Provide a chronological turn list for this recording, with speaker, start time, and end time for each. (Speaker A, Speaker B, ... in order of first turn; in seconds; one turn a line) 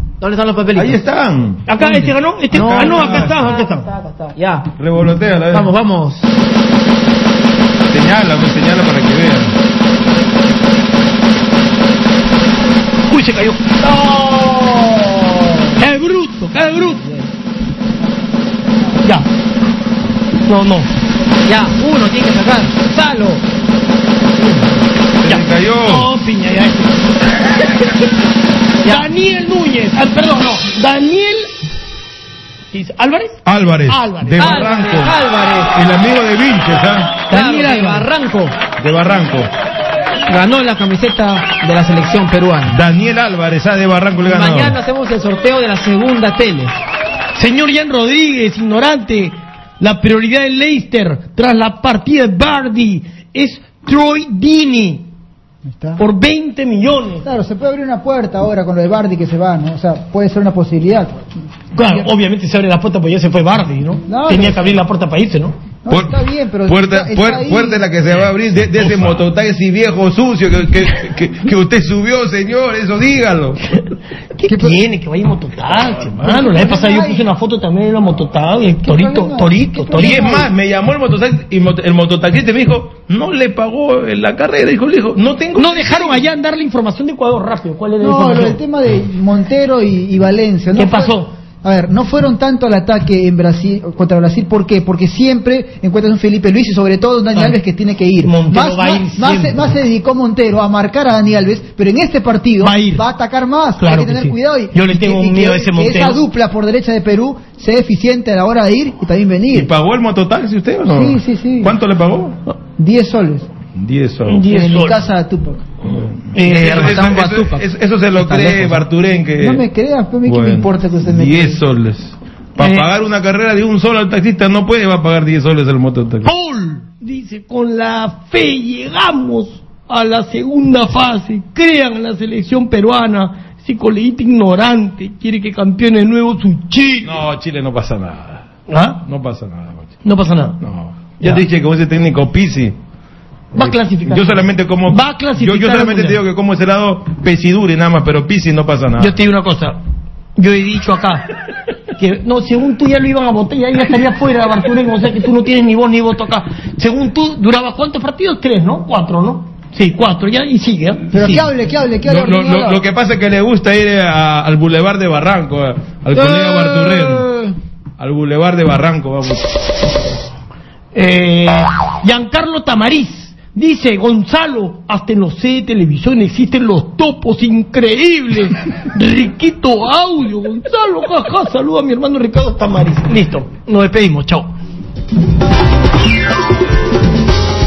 Speaker A: 0.2-1.0
Speaker B: 0.8-1.7
Speaker C: 1.7-3.9
Speaker B: 2.5-3.5
Speaker A: 2.5-4.7
Speaker B: 4.8-5.7
Speaker A: 5.5-6.3
Speaker B: 7.9-9.5
Speaker C: 13.1-13.8
Speaker A: 13.9-15.8
Speaker C: 15.8-17.0
Speaker A: 16.9-17.3
Speaker C: 20.5-20.9
Speaker A: 21.4-23.4
Speaker C: 24.4-27.0
Speaker B: 25.2-26.1
Speaker C: 28.9-31.5
Speaker C: 32.7-34.6
Speaker B: 33.5-35.2
Speaker A: 34.4-35.8
Speaker B: 35.7-37.2
Speaker C: 37.3-38.1
Speaker A: 37.3-38.5
Speaker B: 38.8-39.5
Speaker A: 40.3-42.8
Speaker B: 42.7-44.8
Speaker A: 44.2-46.7
Speaker C: 47.4-55.1
Speaker D: 55.7-56.0
Speaker C: 56.0-57.2
Speaker D: 57.2-61.2
Speaker C: 61.8-65.5
Speaker D: 61.8-62.1
Speaker D: 64.1-64.8
Speaker D: 65.8-67.9
Speaker B: 65.9-73.6
Speaker C: 74.4-80.4
Speaker D: 74.5-74.8
Speaker D: 76.2-77.3
Speaker D: 78.8-80.5
Speaker B: 79.9-86.3
Speaker C: 85.6-88.6
Speaker D: 88.0-109.7
Speaker C: 90.7-91.3
Speaker C: 98.2-99.8
Speaker C: 102.6-103.0
Speaker C: 103.8-106.2
Speaker B: 109.5-112.4
Speaker D: 110.9-111.8
Speaker D: 112.8-113.5
Speaker B: 113.7-114.5
Speaker C: 114.3-115.1
Speaker D: 114.4-115.7
Speaker B: 115.9-119.7
Speaker C: 116.3-117.2
Speaker A: 116.5-118.9
Speaker D: 119.4-121.6
Speaker B: 120.2-126.3
Speaker C: 122.6-122.9
Speaker C: 126.2-137.2
Speaker B: 137.0-138.5
Speaker C: 138.7-139.0
Speaker B: 139.1-139.9
Speaker C: 140.0-140.6
Speaker B: 140.6-142.8
Speaker C: 143.5-146.2
Speaker B: 143.6-149.2
Speaker C: 149.0-149.8
Speaker C: 150.4-151.3
Speaker C: 152.0-161.5
Speaker D: 161.1-162.8
Speaker B: 162.0-167.3
Speaker A: 166.2-167.5
Speaker B: 168.0-169.6
Speaker C: 170.9-184.5